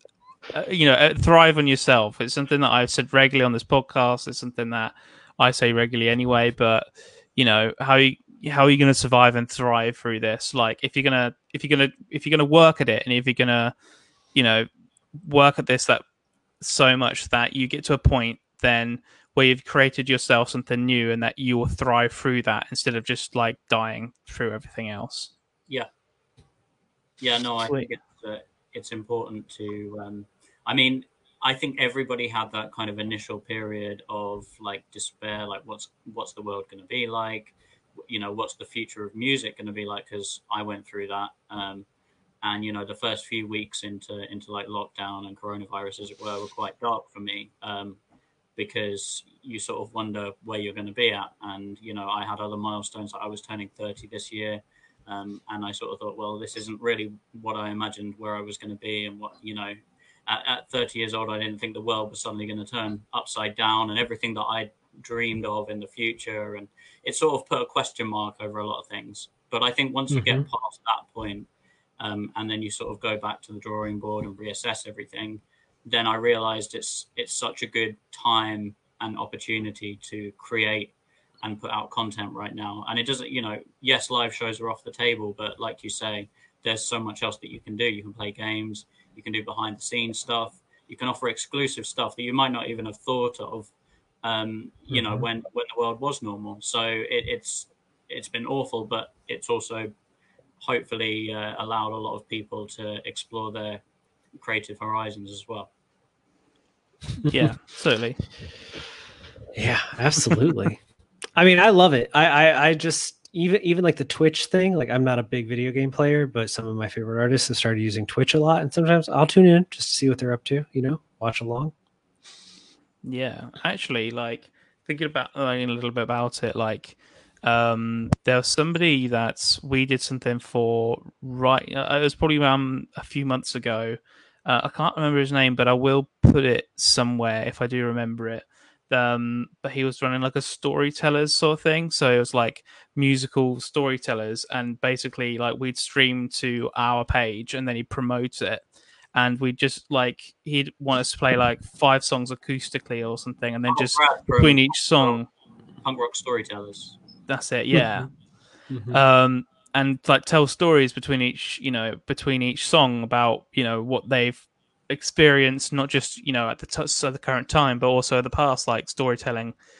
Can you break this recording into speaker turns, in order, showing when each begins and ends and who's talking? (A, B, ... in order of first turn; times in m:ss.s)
0:00.5-0:13.7 A
0:14.3-0:16.0 A
0:16.6-0:25.3 A
0:27.2-0:37.5 B
0:38.1-0:41.8 B
0:42.4-0:48.0 B
0:48.6-0:59.8 B
1:00.3-1:11.5 B
1:10.1-1:10.4 C
1:12.0-1:33.7 B
1:34.2-1:39.9 B
1:34.9-1:35.2 C
1:40.6-1:43.8 B
1:44.3-1:45.7 B
1:47.2-1:48.2 A
1:49.5-1:50.8 C
1:51.4-2:01.7 C
2:03.0-2:28.6 A
2:29.1-2:35.3 A
2:33.7-2:35.2 B
2:35.8-2:37.0 B
2:37.3-2:38.1 A
2:37.7-2:38.1 C
2:38.7-2:39.0 C
2:38.9-2:49.5 A